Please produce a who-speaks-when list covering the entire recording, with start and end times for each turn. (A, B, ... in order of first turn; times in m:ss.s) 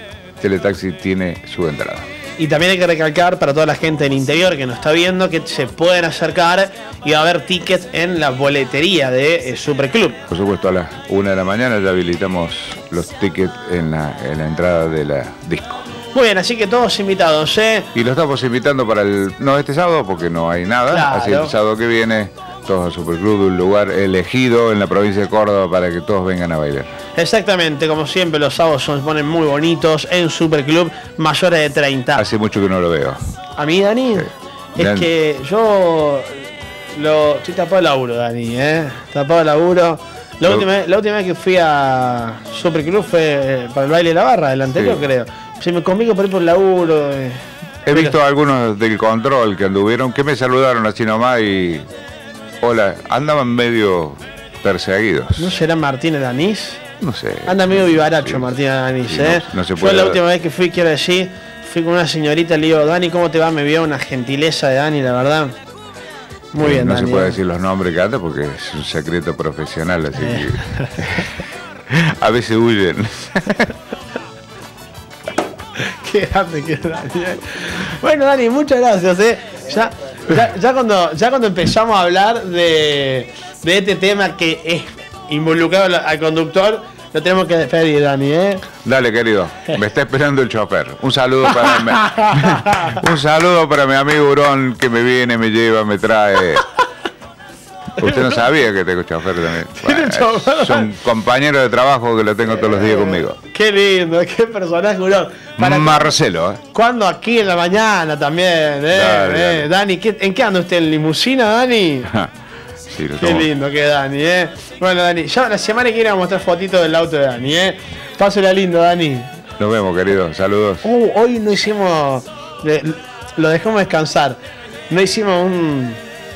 0:00.4-0:02.1 A
0:02.4-0:10.2 B
0:10.3-0:15.9 A
0:16.1-0:17.9 B
0:17.9-0:26.9 A
0:20.9-0:21.5 B
0:27.2-0:32.2 B
0:32.2-0:33.2 A
0:33.6-0:36.4 B
0:34.2-0:35.1 A
0:36.9-0:48.2 B
0:44.7-0:45.0 A
0:47.8-0:51.9 A
0:52.6-0:55.5 A
0:55.4-0:56.8 B
0:57.0-0:58.5 A
0:57.4-1:05.5 B
0:59.1-1:00.2 A
1:06.5-1:07.4 B
1:06.6-1:11.3 A
1:10.2-1:11.0 B
1:11.9-1:13.7 A
1:15.8-1:28.6 B
1:28.8-1:36.6 A
1:31.5-1:33.0 B
1:38.0-1:43.4 A
1:38.0-1:38.4 B
1:39.8-1:40.9 B
1:42.5-1:46.1 B
1:45.6-1:46.6 A
1:46.7-1:52.1 B
1:48.9-1:49.7 A
1:52.9-1:53.5 A
1:53.2-1:59.3 B
1:59.6-2:00.8 A
2:00.8-2:04.4 B
2:04.9-2:06.0 B